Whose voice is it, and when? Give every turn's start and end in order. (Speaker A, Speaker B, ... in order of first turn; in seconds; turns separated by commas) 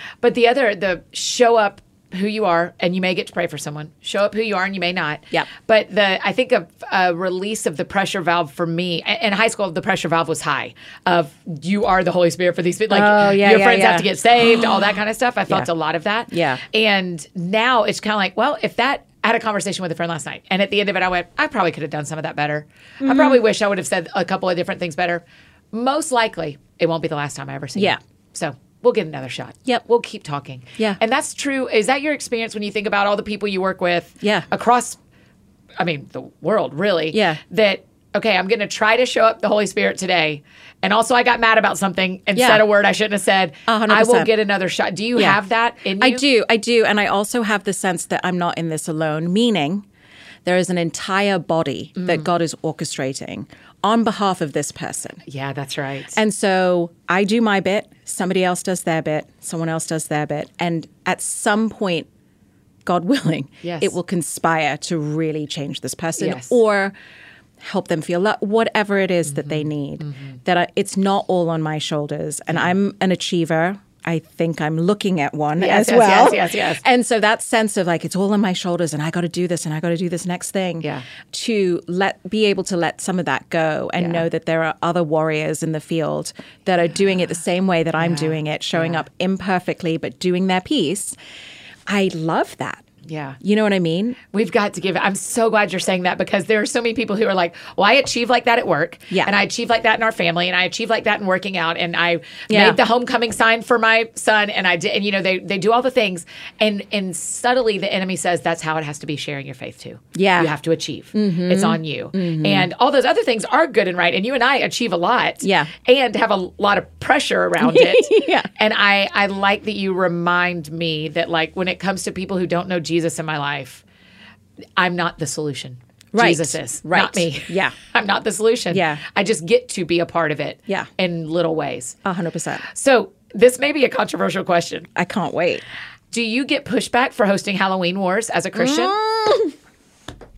Speaker A: 0.2-35.0, Speaker B: 12.9-14.8, Speaker B: 16.3-16.6, Speaker B: 23.0-23.4, Speaker B: 34.2-34.5, Speaker A: 35.8-46.2, Speaker B: 37.1-37.4, Speaker B: 42.3-42.6, Speaker B: 43.7-44.3, Speaker B: 46.0-49.9, Speaker B: 50.4-55.2, Speaker A: 52.0-52.3, Speaker A: 55.2-56.2, Speaker B: 56.1-62.1, Speaker B: 62.8-66.9, Speaker A: 63.6-63.9, Speaker A: 66.2-66.6, Speaker B: 67.6-91.2, Speaker A: 69.2-70.4, Speaker A: 75.6-76.8, Speaker A: 80.8-81.1, Speaker A: 84.0-84.2, Speaker A: 88.0-89.0, Speaker B: 91.9-92.8, Speaker A: 93.0-93.4, Speaker B: 93.4-94.2, Speaker A: 94.3-123.8, Speaker B: 102.5-102.8, Speaker B: 110.1-110.5, Speaker B: 111.1-112.7, Speaker B: 115.4-115.7, Speaker B: 117.6-118.5, Speaker A: 124.8-132.0, Speaker B: 126.1-127.7, Speaker B: 128.7-129.0, Speaker B: 132.0-132.7, Speaker A: 132.7-134.9, Speaker B: 134.9-135.6, Speaker A: 136.1-138.9, Speaker B: 138.5-139.5